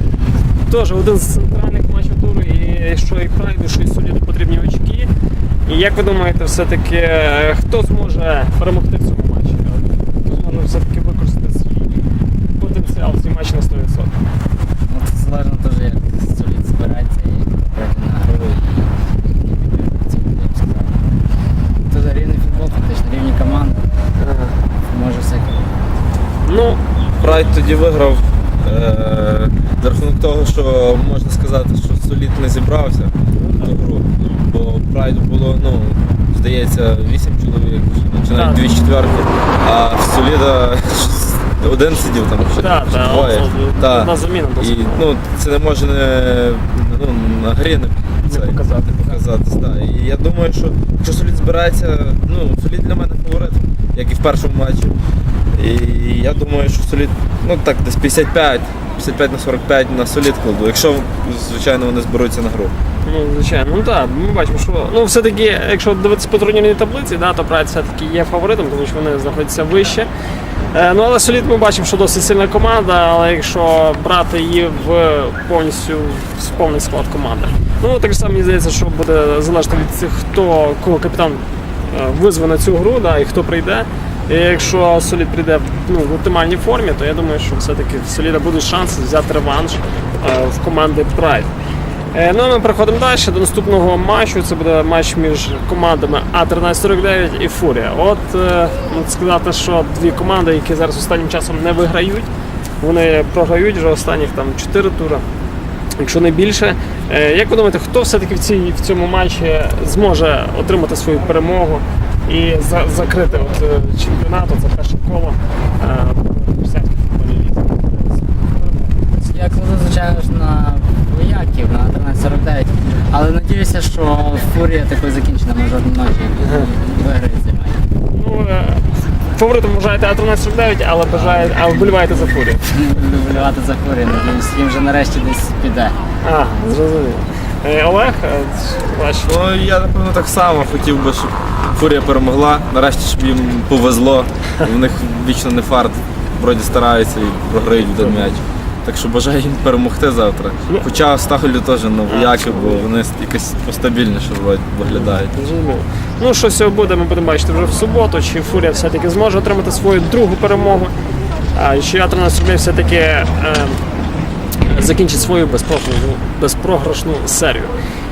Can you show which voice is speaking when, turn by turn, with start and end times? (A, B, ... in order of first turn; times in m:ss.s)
0:00.7-0:05.1 A
0:05.7-0:11.9 A
0:12.6-0:14.1 A
0:14.8-0:21.0 B
0:21.9-0:23.8 B
0:24.2-0:24.5 A
0:24.9-0:25.7 B
0:26.4-0:26.8 A
0:27.2-0:55.0 C
0:33.4-0:33.7 A
0:38.3-0:38.6 A
0:42.6-0:45.0 A
0:48.3-0:49.2 A
0:55.5-1:02.7 C
1:03.0-1:10.1 A
1:10.7-1:31.5 A
1:32.1-1:42.3 A
1:42.8-1:45.2 A
1:46.0-1:58.9 A
1:59.2-2:07.8 B
2:06.4-2:06.7 A
2:08.1-2:12.7 A
2:11.1-2:16.0 B
2:16.2-2:19.3 A
2:19.2-2:35.3 C
2:28.0-2:28.3 A
2:32.0-2:32.8 A
2:34.8-2:40.9 A
2:41.5-2:43.8 A
2:44.6-2:47.7 A